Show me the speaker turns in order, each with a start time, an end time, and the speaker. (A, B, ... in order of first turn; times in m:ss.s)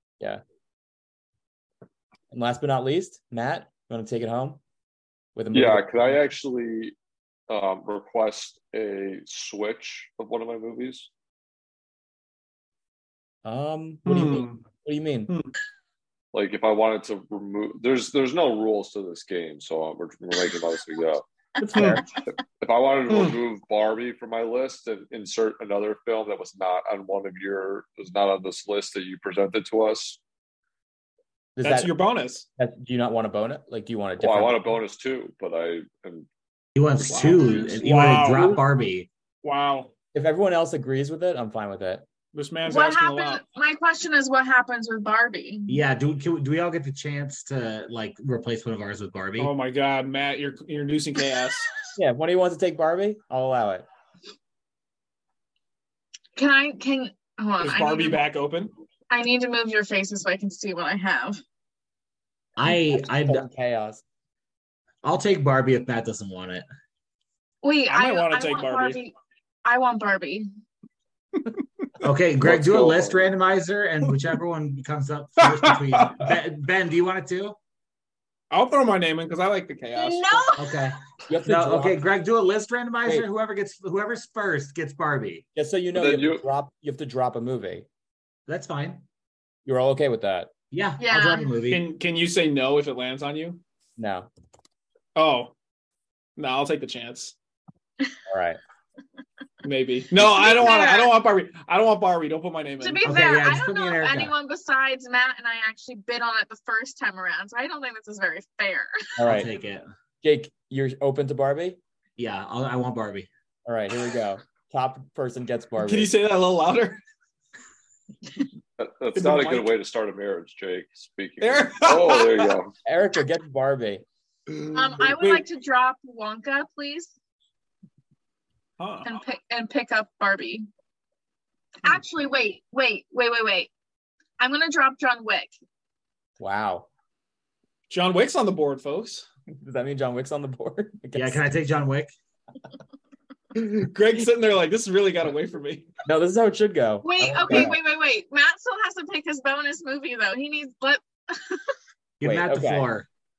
0:02.3-0:04.6 A
0:05.4-0:06.1 A
0:05.5-0:07.0 B
0:07.5-0:11.1 B
0:13.4-0:15.3 A
0:14.0-0:14.6 C
0:16.3-0:21.2 B
0:21.6-0:22.1 A
0:21.8-0:22.0 C
0:22.2-0:30.2 B
0:23.1-0:23.4 C
0:31.6-0:31.9 A
0:31.6-0:32.4 C
0:32.6-0:34.8 A
0:34.2-0:36.3 B
0:36.8-0:39.1 D
0:37.0-0:38.6 C
0:37.3-0:37.8 E
0:39.4-0:39.9 C
0:40.1-0:42.0 A
0:42.3-0:43.4 C
0:42.6-0:45.8 E
0:45.7-0:49.5 D
0:49.4-0:51.7 C
0:52.0-0:53.9 A
0:56.4-0:58.2 E
0:57.6-0:58.7 C
0:59.1-1:01.4 E
1:02.6-1:03.5 D
1:02.9-1:04.0 A
1:05.0-1:06.6 D
1:07.6-1:09.1 E
1:07.9-1:09.0 C
1:09.6-1:10.5 E
1:12.0-1:17.6 D
1:12.4-1:13.3 B
1:15.4-1:16.4 C
1:18.5-1:20.5 C
1:20.0-1:20.8 E
1:20.6-1:25.4 D
1:21.3-1:22.0 A
1:25.6-1:27.9 A
1:25.9-1:26.4 B
1:28.5-1:29.0 D
1:29.6-1:30.5 A
1:30.7-1:31.8 D
1:31.0-1:31.5 E
1:31.7-1:33.6 C
1:34.0-1:34.3 A
1:35.2-1:35.5 C
1:36.4-1:37.4 C
1:38.3-1:38.6 A
1:39.6-1:43.1 C
1:40.2-1:41.1 E
1:42.8-1:49.2 E
1:43.0-1:44.3 D
1:49.2-1:49.5 A
1:49.2-1:49.9 D
1:50.2-1:51.8 A
1:52.2-1:53.3 D
1:53.6-1:56.1 A
1:55.8-1:57.0 C
1:58.8-2:02.7 B
1:59.2-1:59.7 C
2:01.4-2:02.6 C
2:02.8-2:04.0 A
2:04.5-2:05.4 C
2:04.7-2:07.1 E
2:08.8-2:09.1 C
2:09.0-2:10.7 E
2:11.8-2:13.7 E
2:14.4-2:15.5 E
2:16.4-2:16.9 A
2:17.9-2:19.3 C
2:19.6-2:21.4 A
2:21.1-2:22.1 D
2:23.6-2:25.9 C
2:26.0-2:27.8 A
2:27.0-2:31.7 E
2:32.2-2:33.1 D
2:32.2-2:32.9 A